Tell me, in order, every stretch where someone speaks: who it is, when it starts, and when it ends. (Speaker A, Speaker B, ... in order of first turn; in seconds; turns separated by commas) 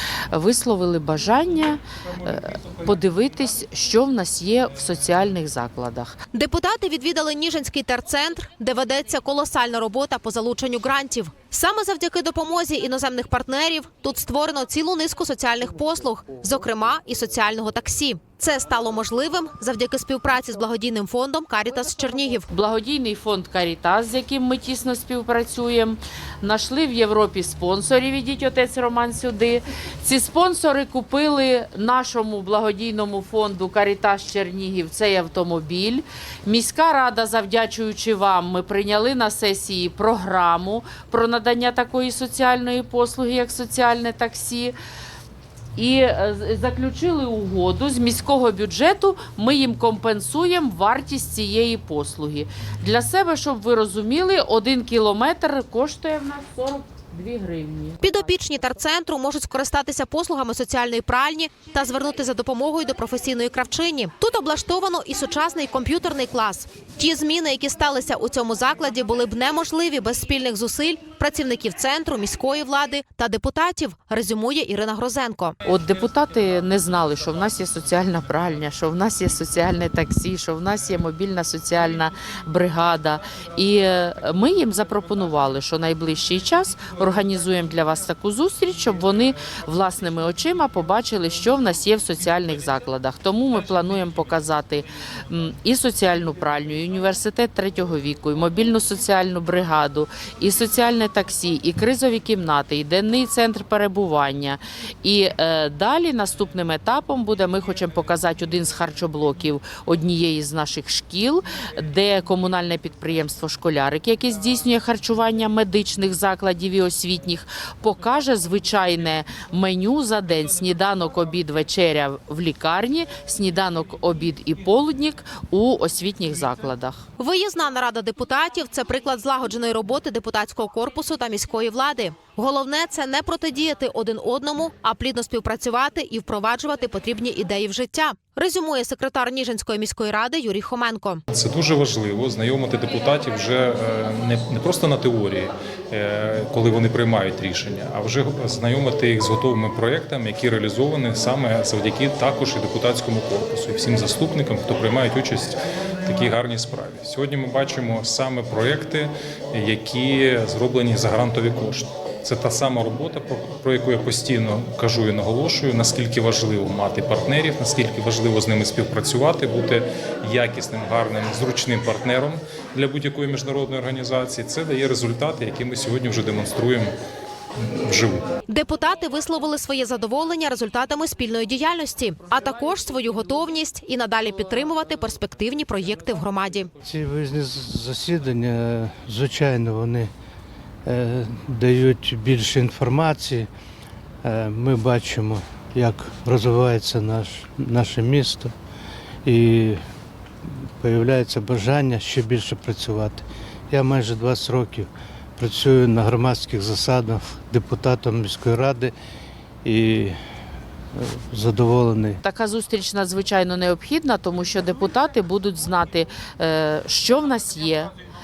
Speaker A: 0.3-6.1, Speaker B: 6.3-22.5, Speaker A: 22.5-44.7, Speaker A: 45.7-58.0, Speaker B: 58.0-75.6, Speaker A: 75.6-127.0, Speaker B: 127.2-141.2, Speaker C: 141.3-176.9, Speaker C: 177.8-178.2, Speaker B: 178.5-186.7, Speaker D: 186.8-190.1, Speaker D: 190.8-193.5, Speaker D: 194.2-198.5, Speaker D: 199.2-199.8, Speaker D: 200.8-208.9, Speaker D: 209.6-210.2, Speaker D: 210.9-212.2, Speaker A: 212.2-217.9